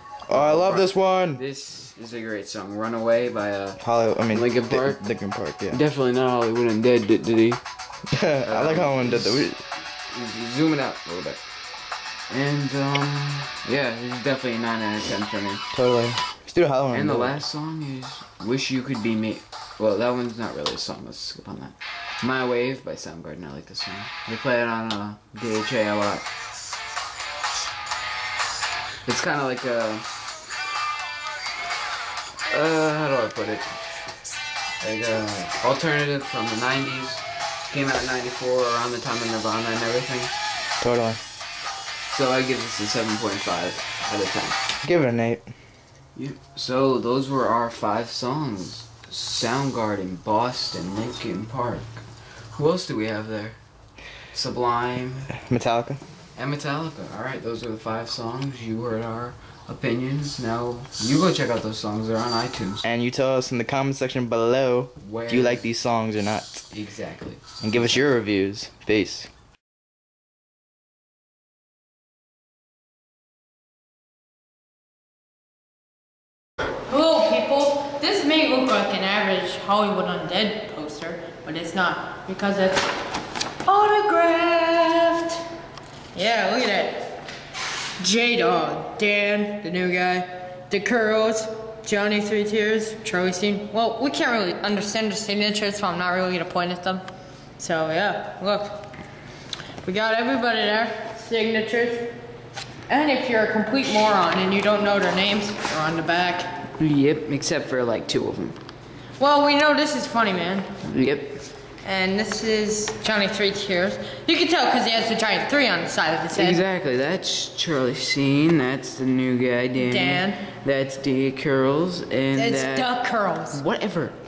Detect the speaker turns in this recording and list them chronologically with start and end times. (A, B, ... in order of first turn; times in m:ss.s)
0:00.3-0:01.4 A
0:00.3-0:05.1 B
0:03.8-0:05.8 A
0:05.7-0:07.6 B
0:08.1-0:09.6 A
0:08.4-0:09.5 B
0:10.1-0:11.5 B
0:12.3-0:15.6 B
0:15.7-0:17.4 A
0:16.9-0:26.3 B
0:29.0-0:30.1 B
0:32.5-0:33.8 B
0:34.8-0:40.3 B
0:40.8-0:41.2 A
0:42.1-0:44.6 B
0:44.8-0:45.5 A
0:46.2-0:53.6 B
0:54.3-0:55.3 B
0:55.4-0:56.0 A
0:56.4-1:02.8 B
1:02.8-1:06.7 A
1:05.0-1:05.6 B
1:06.7-1:07.6 B
1:07.6-1:09.3 A
1:16.9-1:22.9 C
1:23.6-1:25.4 C
1:26.1-1:27.2 C
1:28.0-1:37.0 C
1:37.6-1:38.8 C
1:39.8-1:42.1 C
1:42.9-1:46.6 C
1:46.8-1:48.6 B
1:49.2-1:50.7 C
1:50.8-1:51.4 B
1:51.8-1:56.6 C
1:56.3-2:03.0 B
1:59.8-2:00.4 C
2:02.4-2:03.6 C
2:03.5-2:04.2 B